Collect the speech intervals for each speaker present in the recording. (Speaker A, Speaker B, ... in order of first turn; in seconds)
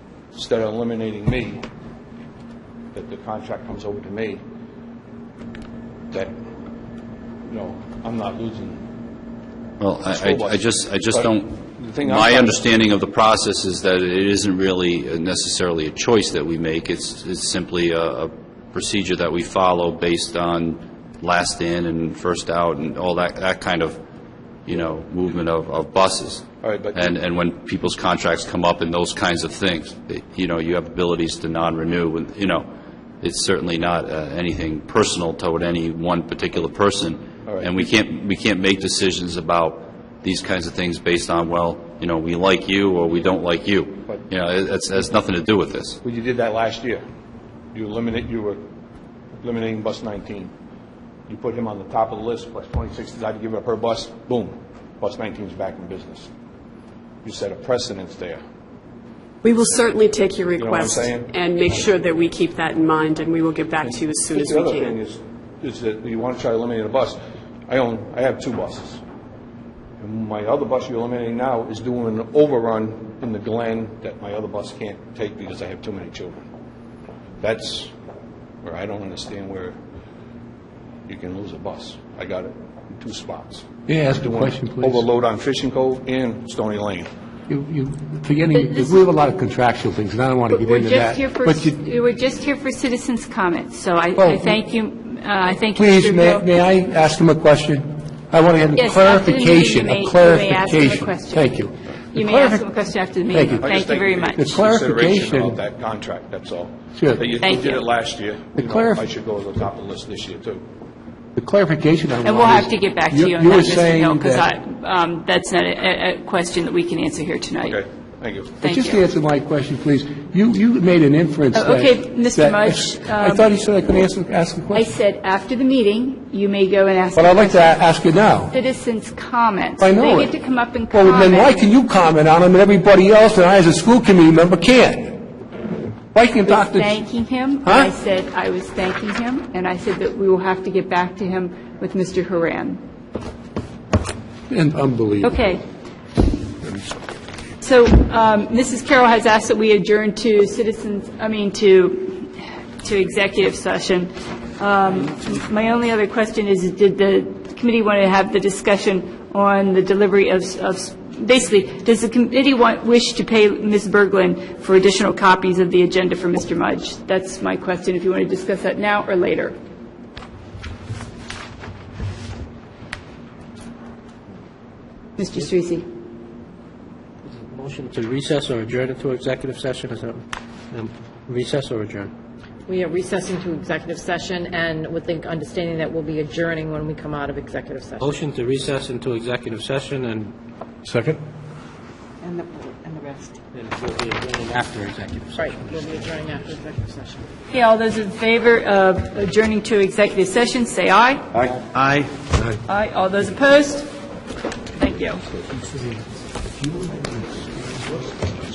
Speaker A: 0.3-1.6, 2.9-4.4, 7.5-8.8, 10.1-12.7, 26.6-27.1, 37.5-37.7, 46.0-47.0, 47.7-48.6, 49.4-50.5, 51.3-56.3, 57.2-58.4, 60.6-61.3, 64.3-69.0, 70.0-76.5, 77.4-77.9, 78.6-79.8, 81.1-87.1, 103.6-110.6, 117.6-118.5
Speaker B: 9.8-24.0, 24.6-32.7, 33.2-46.0, 201.7-202.1
Speaker C: 59.4-65.0
Speaker D: 83.9-85.0, 87.5-91.8, 94.2-94.6, 95.8-102.7, 103.2-103.7, 104.4-105.6, 106.9-107.3, 108.5-109.0, 111.3-114.5, 118.6-124.9, 127.2-128.5, 129.8-135.2, 136.1-137.0, 137.6-137.9, 144.5-145.4, 190.9-191.2, 205.6-205.9, 206.6-208.1
Speaker E: 88.5-89.0, 90.5-96.4, 98.7-101.6, 102.1-104.4, 107.4-107.8, 112.2-117.8, 118.6-119.0, 121.5-123.5, 124.7-127.8, 128.5-131.7, 136.4-142.8, 145.2-145.6, 147.6-169.6, 175.2-175.9, 197.5-201.2, 202.7-203.9, 204.8-205.2
Speaker F: 177.3-182.1, 188.0-190.3, 193.5-195.8
Speaker G: 182.7-188.1, 192.2-193.3, 195.4-197.2